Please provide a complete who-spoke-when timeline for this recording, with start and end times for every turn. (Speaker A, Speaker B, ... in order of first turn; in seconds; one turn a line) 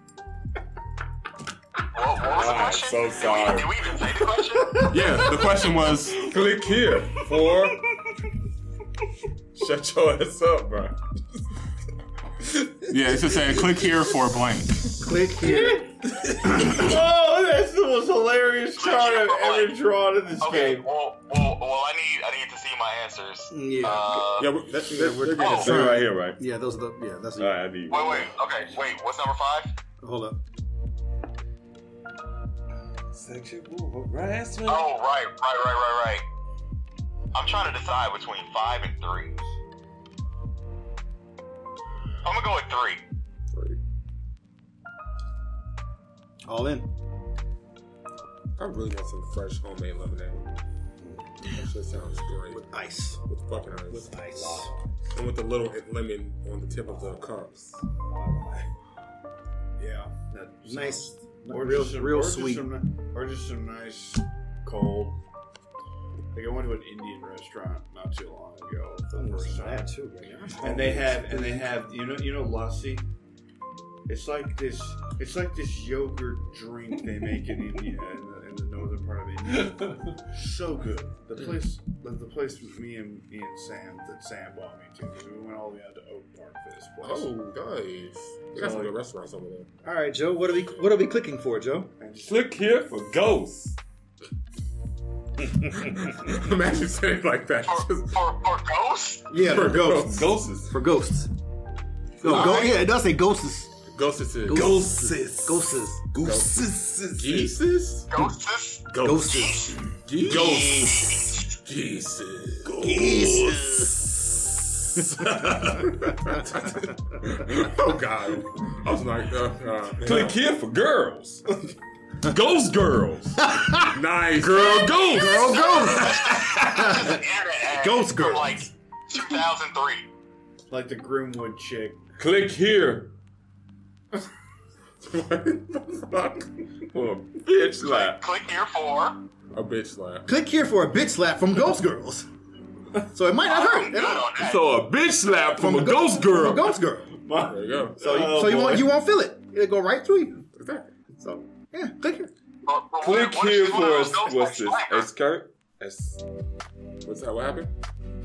Speaker A: 1.9-4.9
Speaker B: 2.2-4.2
Speaker C: 4.8-6.3
Speaker B: 6.1-7.8
Speaker B: 9.5-11.0
Speaker C: 12.8-15.0
Speaker D: 14.9-15.9
Speaker E: 15.4-20.9
Speaker A: 18.8-19.8
Speaker A: 20.4-24.5
Speaker D: 23.5-27.6
Speaker C: 24.4-25.9
Speaker A: 25.4-25.7
Speaker B: 25.5-26.4
Speaker B: 27.4-28.3
Speaker A: 27.9-29.7
Speaker D: 30.0-30.4
Speaker B: 33.1-34.9
Speaker A: 34.6-36.2
Speaker A: 37.3-39.4
Speaker A: 42.2-43.0
Speaker D: 46.5-46.9
Speaker C: 48.6-50.5
Speaker C: 51.4-52.6
Speaker D: 52.5-53.2
Speaker C: 53.2-54.1
Speaker D: 53.9-54.7
Speaker B: 54.4-54.7
Speaker C: 55.1-57.8
Speaker E: 59.8-65.2
Speaker D: 60.6-62.7
Speaker E: 66.3-69.9
Speaker D: 69.1-71.7
Speaker E: 70.6-73.1
Speaker E: 74.1-87.3
Speaker C: 87.0-89.7
Speaker D: 89.8-91.9
Speaker E: 92.0-92.4
Speaker B: 92.2-93.8
Speaker C: 95.6-98.2
Speaker A: 97.7-99.2
Speaker D: 99.3-101.3
Speaker C: 99.4-100.3
Speaker B: 100.0-100.7
Speaker D: 102.2-103.8
Speaker A: 102.2-102.8
Speaker C: 102.2-102.7
Speaker C: 103.9-104.8
Speaker D: 104.4-106.9
Speaker B: 104.5-107.5
Speaker C: 106.2-108.1
Speaker A: 108.1-109.8
Speaker C: 108.9-109.3
Speaker D: 109.0-111.3
Speaker C: 110.0-110.8
Speaker B: 110.2-111.2
Speaker A: 110.8-111.4
Speaker C: 111.5-112.7
Speaker B: 112.6-114.1
Speaker D: 112.8-114.2
Speaker D: 115.2-116.4
Speaker C: 115.2-120.4
Speaker B: 120.0-121.4
Speaker B: 122.2-123.5
Speaker D: 123.4-124.0
Speaker C: 123.9-124.9
Speaker B: 124.3-126.9
Speaker A: 124.6-130.1
Speaker D: 125.1-128.7
Speaker E: 130.7-132.0
Speaker B: 132.2-133.1
Speaker C: 135.0-136.5
Speaker B: 136.9-138.2
Speaker A: 137.8-139.2
Speaker C: 139.5-140.3
Speaker D: 140.2-142.3
Speaker D: 143.0-144.4
Speaker A: 143.4-144.7
Speaker B: 144.3-146.8
Speaker D: 145.5-147.1
Speaker E: 147.2-148.9
Speaker C: 147.4-148.0
Speaker D: 148.0-150.4
Speaker C: 150.6-150.9
Speaker D: 151.2-152.3
Speaker A: 152.6-155.1
Speaker B: 153.0-156.2
Speaker C: 157.0-157.7